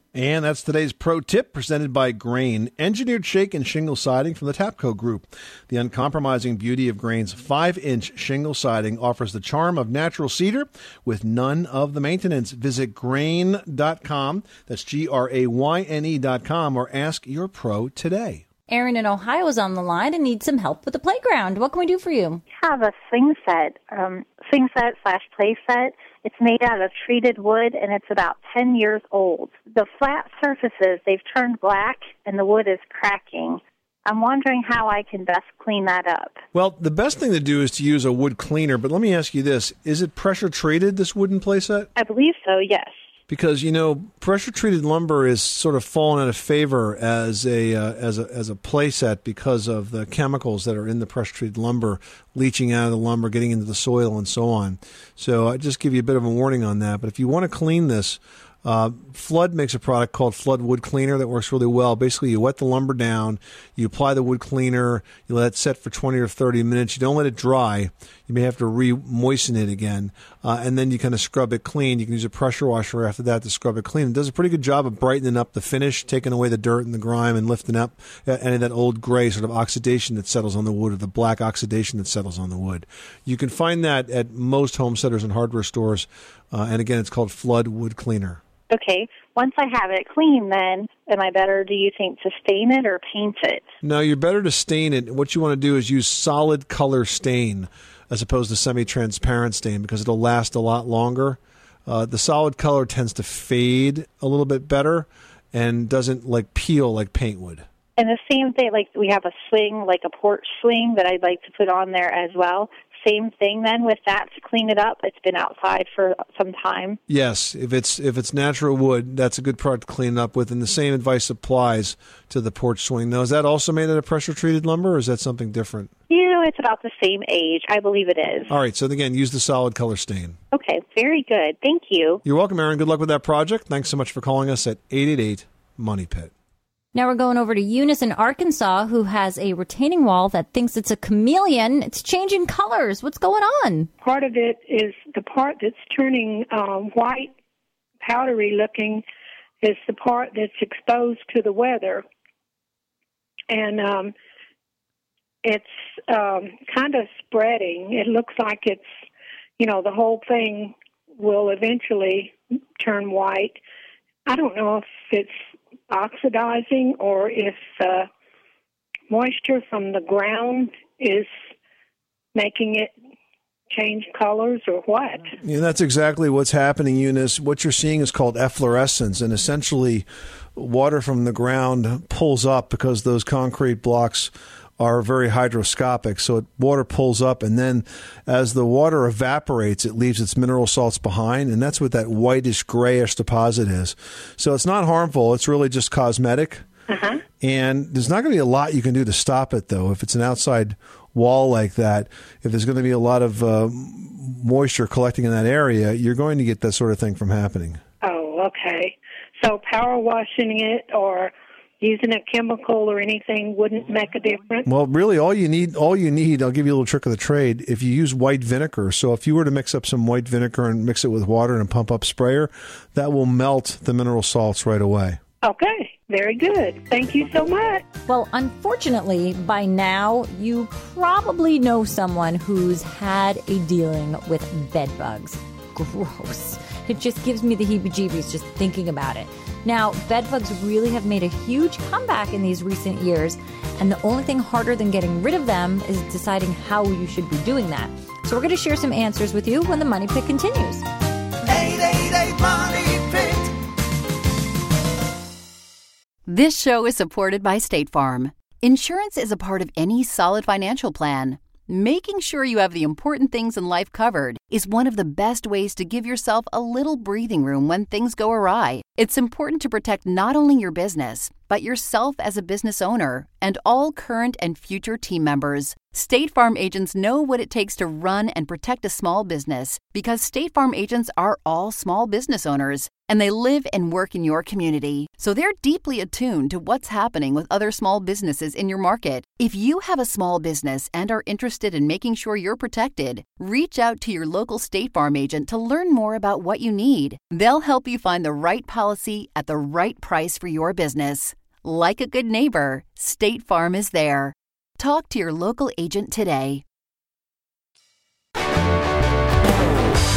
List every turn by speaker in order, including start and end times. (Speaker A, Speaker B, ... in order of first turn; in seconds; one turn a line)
Speaker A: 0.1-18.4
Speaker B: 18.7-22.4
Speaker C: 22.5-36.4
Speaker A: 36.5-41.9
Speaker C: 42.0-43.1
Speaker A: 43.3-88.4
Speaker C: 88.7-93.7
Speaker A: 93.8-107.7
Speaker C: 108.0-117.0
Speaker A: 117.1-125.9
Speaker C: 126.1-128.5
Speaker A: 128.5-130.4
Speaker C: 130.5-132.2
Speaker A: 132.2-136.3
Speaker B: 136.9-143.9
Speaker D: 144.0-147.3
Speaker D: 148.0-149.0
Speaker D: 149.6-152.1
Speaker D: 153.5-154.1
Speaker D: 155.4-158.8
Speaker D: 159.6-163.6
Speaker D: 164.3-165.4
Speaker D: 165.9-168.1
Speaker D: 169.1-171.3
Speaker D: 172.3-172.9
Speaker D: 173.7-175.3
Speaker A: 175.4-196.6
Speaker D: 196.9-197.2
Speaker A: 197.4-207.8
Speaker D: 208.0-214.7
Speaker A: 214.7-225.2
Speaker D: 225.4-227.8
Speaker B: 228.1-250.8
Speaker E: 251.5-253.6
Speaker F: 256.3-306.6